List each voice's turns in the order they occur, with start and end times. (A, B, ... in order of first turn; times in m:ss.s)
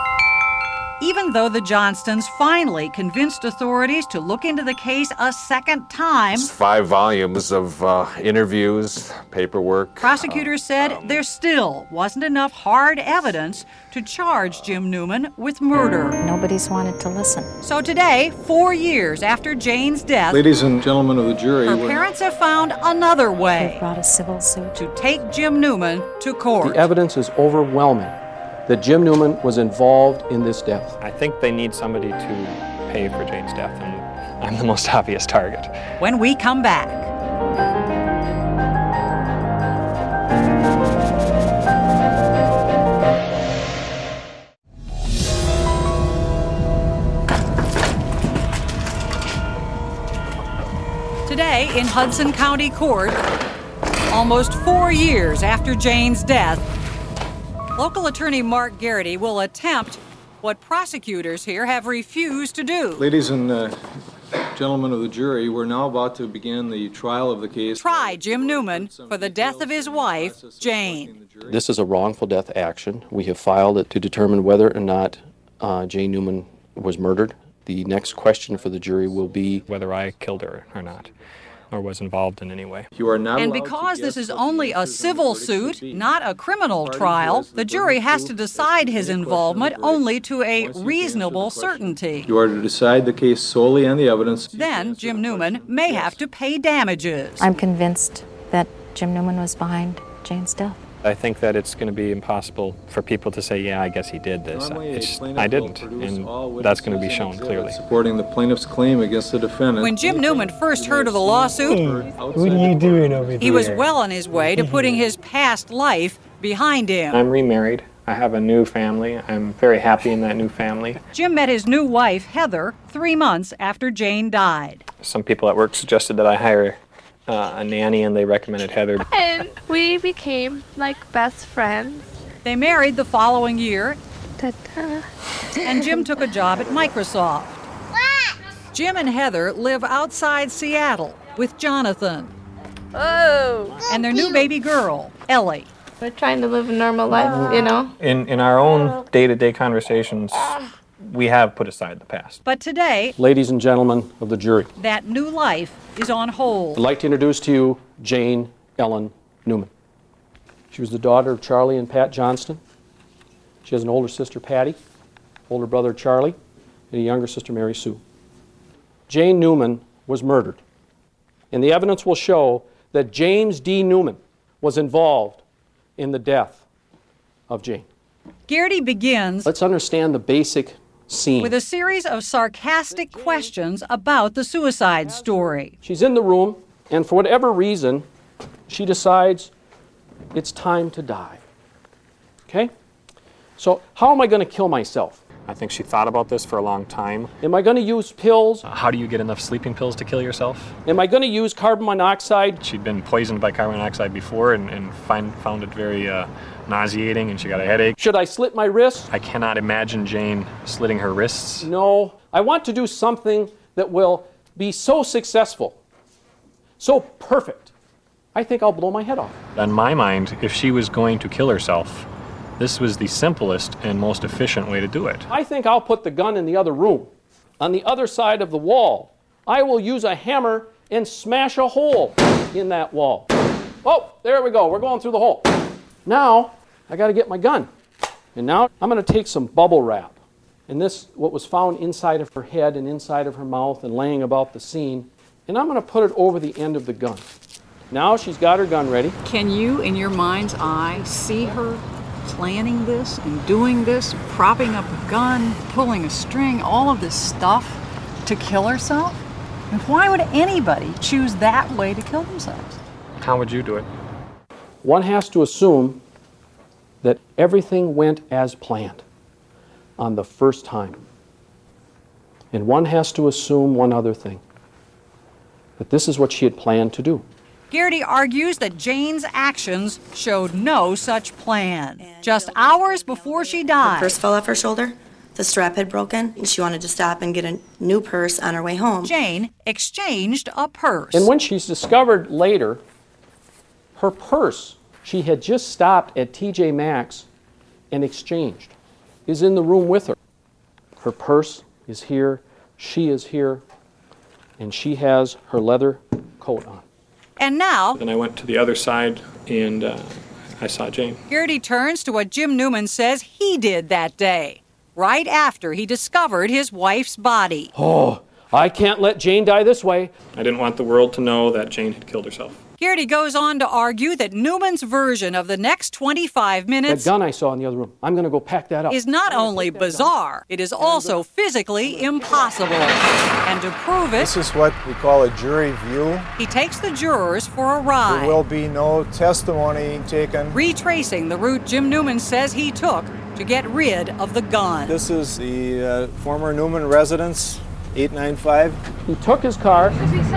0:01.0-0:06.5 A
0:06.3-0:11.2 B
0:10.0-0:16.2 A
0:13.3-0:13.7 B
0:14.4-0:14.8 B
0:16.2-0:17.5 C
0:17.6-0:20.4 A
0:20.3-0:22.1 D
0:21.6-0:23.8 A
0:23.6-0:24.9 C
0:24.8-0:26.9 A
0:26.6-0:28.1 E
0:28.7-0:31.0 E
0:31.0-0:35.7 F
0:36.0-0:37.1 A
0:51.3-0:53.3 A
0:54.1-0:56.7 A
0:57.8-1:03.1 A
1:03.0-1:03.8 D
1:04.5-1:11.6 D
1:07.8-1:11.2 A
1:11.5-1:19.6 E
1:18.0-1:19.6 D
1:19.7-1:21.1 F
1:21.7-1:22.9 F
1:22.9-1:26.1 D
1:23.4-1:32.3 A
1:26.8-1:36.2 D
1:34.5-1:37.6 A
1:37.4-1:40.8 C
1:41.0-1:47.8 F
1:44.5-1:53.9 D
1:49.8-1:51.8 A
1:53.4-1:57.2 A
1:57.1-2:01.0 F
2:01.1-2:04.8 A
2:05.0-2:09.1 F
2:09.0-2:12.2 G
2:12.4-2:14.0 A
2:14.4-2:15.1 G
2:15.6-2:17.6 A
2:15.7-2:16.0 G
2:18.7-2:22.3 A
2:22.9-2:24.2 G
2:23.9-2:25.7 A
2:26.0-2:28.0 G
2:27.1-2:32.4 F
2:32.4-2:33.1 A
2:33.2-2:34.7 E
2:34.8-2:36.8 A
2:36.8-2:39.7 E
2:40.7-2:42.6 E
2:43.6-2:44.8 E
2:45.5-2:46.4 E
2:46.9-2:48.0 E
2:49.1-2:50.6 E
2:51.5-2:55.4 E
2:56.0-2:56.6 E
2:57.5-2:57.9 E
2:58.5-2:59.5 A
2:59.4-3:01.6 E
3:01.4-3:05.7 A
3:02.9-3:03.5 E
3:05.0-3:08.1 E
3:08.7-3:09.5 E
3:10.3-3:11.4 E
3:12.5-3:12.7 E
3:13.6-3:15.2 E
3:15.4-3:17.4 F
3:17.4-3:18.6 E
3:18.6-3:20.8 F
3:20.9-3:22.6 E
3:22.6-3:28.0 F
3:28.0-3:29.1 E
3:29.1-3:31.7 F
3:31.6-3:35.8 E
3:36.8-3:37.7 E
3:38.4-3:39.4 E
3:39.6-3:42.1 F
3:42.6-3:45.3 F
3:45.3-3:53.3 E
3:53.8-3:57.7 E
3:58.4-4:00.2 E
4:00.7-4:07.3 E
4:07.9-4:09.2 E
4:09.2-4:22.8 H
4:23.2-4:23.9 F
4:24.8-4:26.0 E
4:27.0-4:29.0 E
4:30.0-4:31.0 E
4:32.5-4:34.4 E
4:35.8-4:37.2 E
4:37.7-4:44.2 A
4:42.0-4:49.1 I
4:49.0-4:51.3 A
4:51.1-4:52.8 E
4:54.0-4:57.3 E
4:57.9-4:58.7 E
4:59.3-5:00.2 E
5:01.0-5:03.6 E
5:04.6-5:06.8 E
5:07.4-5:08.0 A
5:07.9-5:11.2 F
5:11.3-5:17.7 A
5:17.8-5:20.1 E
5:20.3-5:22.6 F
5:22.8-5:27.1 A
5:26.9-5:30.1 E
5:28.9-5:34.3 A
5:30.8-5:31.1 E
5:31.8-5:32.5 E
5:34.2-5:36.3 J
5:36.4-5:38.4 A
5:38.1-5:40.6 J
5:40.5-5:45.0 A
5:44.9-5:48.8 J
5:49.1-5:50.0 E